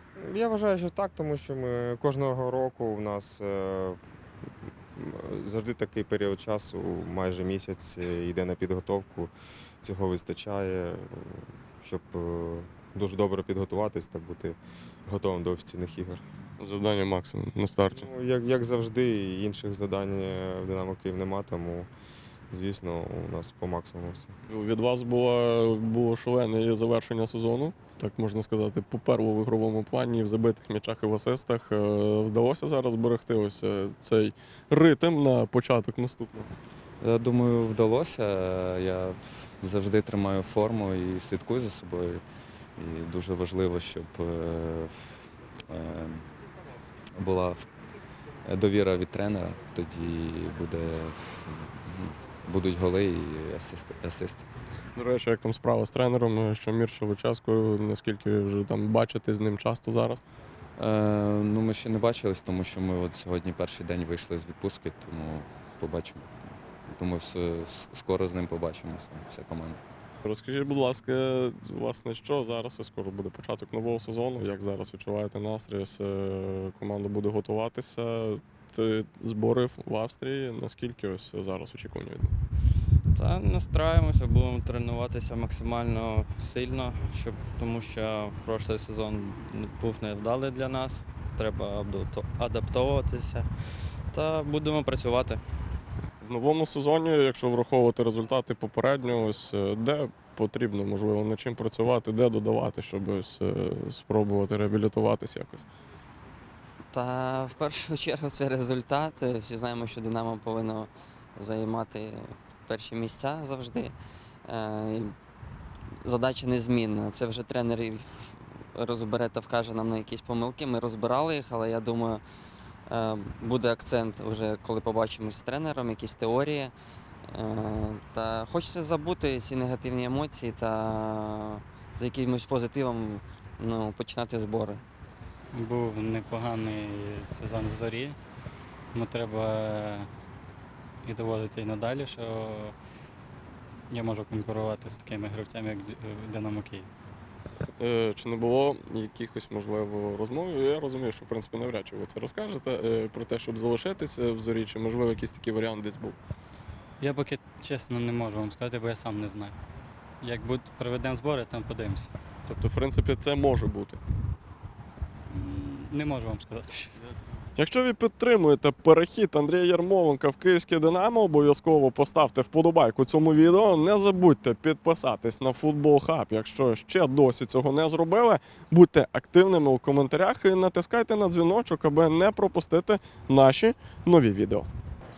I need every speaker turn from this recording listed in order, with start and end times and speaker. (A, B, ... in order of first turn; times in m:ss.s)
0:00.2-0:04.0 A
0:05.0-0:14.6 A
0:15.1-0:16.2 A
0:16.6-0:18.1 B
0:17.9-0:21.9 A
0:22.5-0:24.3 A
0:24.5-0:36.5 B
0:37.0-0:42.2 C
0:42.8-0:46.2 C
0:47.2-0:47.6 C
0:48.4-0:54.5 C
0:54.9-1:00.2 B
1:00.8-1:06.3 C
1:06.9-1:09.8 C
1:10.2-1:22.3 B
1:23.1-1:33.5 D
1:34.1-1:35.4 D
1:36.2-1:45.6 B
1:46.9-1:53.9 E
1:54.5-1:55.1 E
1:56.0-2:02.2 E
2:02.9-2:06.7 E
2:07.3-2:14.8 E
2:15.5-2:18.2 F
2:18.9-2:20.1 F
2:21.0-2:22.7 F
2:23.9-2:26.9 F
2:27.8-2:36.2 B
2:37.0-2:39.6 F
2:40.2-2:42.1 F
2:42.4-2:44.0 B
2:45.3-2:47.0 F
2:47.6-3:04.7 B